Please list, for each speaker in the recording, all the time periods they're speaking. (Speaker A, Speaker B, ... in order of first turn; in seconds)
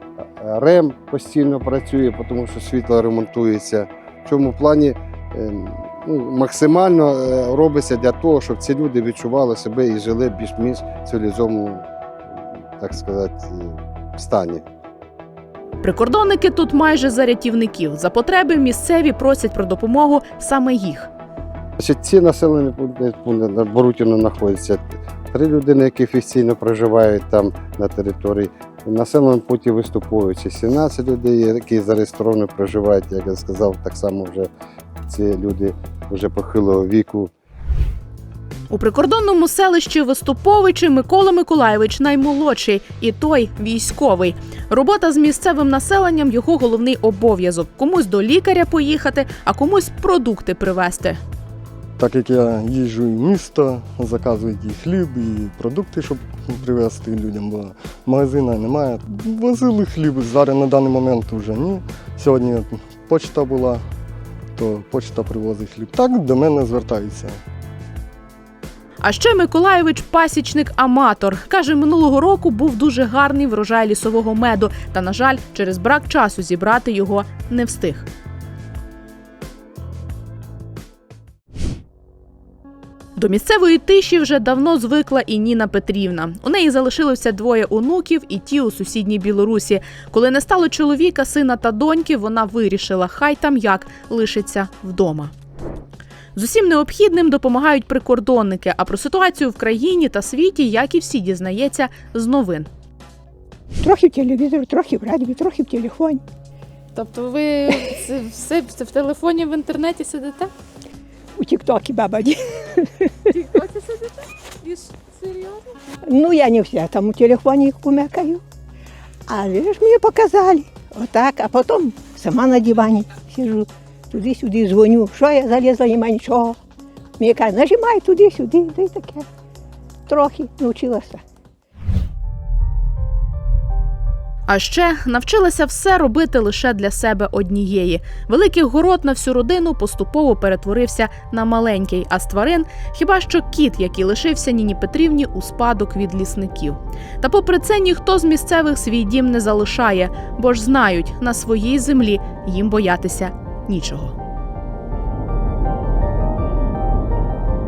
Speaker A: 0.4-11.8, 12.8-14.6, 21.8-34.5, 35.1-37.3
Speaker B: 15.8-21.1, 38.7-51.2, 69.0-78.1, 83.2-95.3, 96.3-102.7, 134.5-154.2
Speaker C: 52.0-63.8, 64.6-67.3
Speaker D: 103.8-106.2, 111.4-112.8, 116.0-118.4, 119.3-126.6, 127.2-129.3, 130.1-131.2